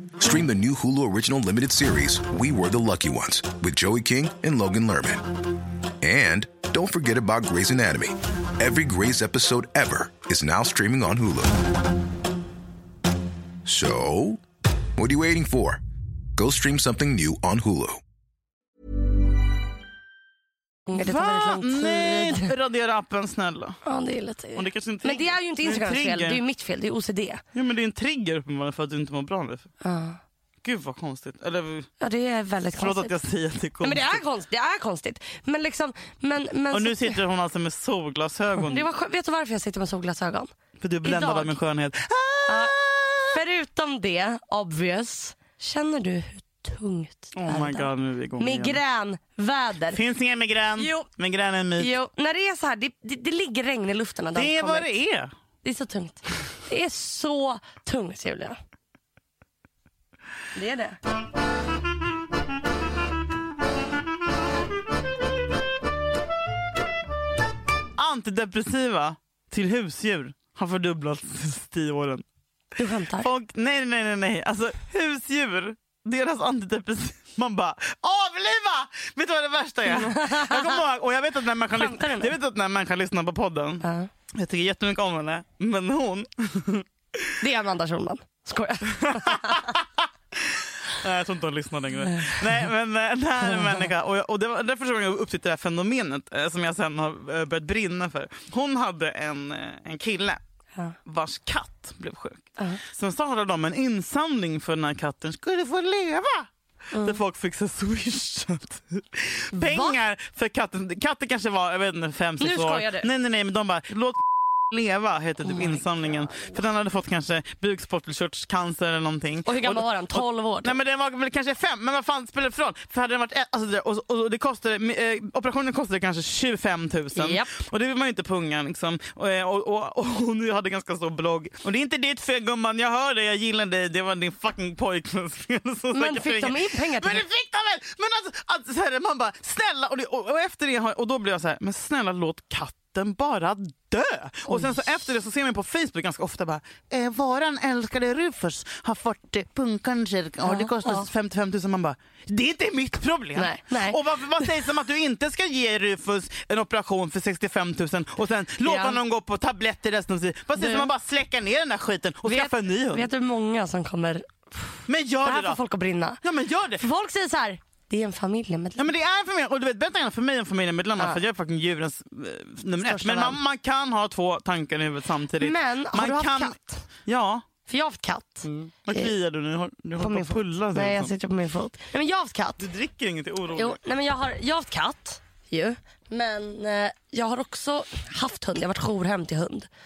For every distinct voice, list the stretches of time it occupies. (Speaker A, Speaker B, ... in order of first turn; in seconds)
Speaker A: 0.2-5.2, 6.0-11.6, 13.7-14.4, 15.0-15.8, 16.4-18.0
Speaker B: 20.9-22.5, 23.8-27.4, 29.8-30.2, 32.0-33.2, 33.8-37.2, 38.6-40.5, 41.0-41.6, 42.5-42.8, 43.3-50.0, 50.8-51.1, 51.8-55.0, 55.6-58.6, 60.5-61.0, 72.8-73.3, 79.9-80.8, 81.7-82.4, 83.8-84.1, 87.4-89.7, 106.9-107.2, 109.5-110.0, 112.4-113.1, 115.5-116.6, 119.5-120.8, 127.1-127.5, 135.9-137.2, 150.4-151.1, 153.4-154.5, 158.6-159.0, 160.6-160.9, 162.2-166.2, 166.8-168.9, 172.8-173.4, 175.4-176.8, 177.7-179.1, 180.0-182.7, 183.5-189.7
Speaker C: 20.9-23.8, 24.6-26.4, 27.6-29.7, 30.6-31.9, 32.8-34.2, 36.7-38.9, 40.8-43.4, 47.3-48.8, 49.9-51.9, 54.4-55.3, 68.0-72.2, 73.2-87.4, 88.9-89.8, 90.4-100.4, 101.1-163.1, 164.9-165.6, 166.2-166.8, 168.8-177.4, 178.5-181.1, 182.6-183.8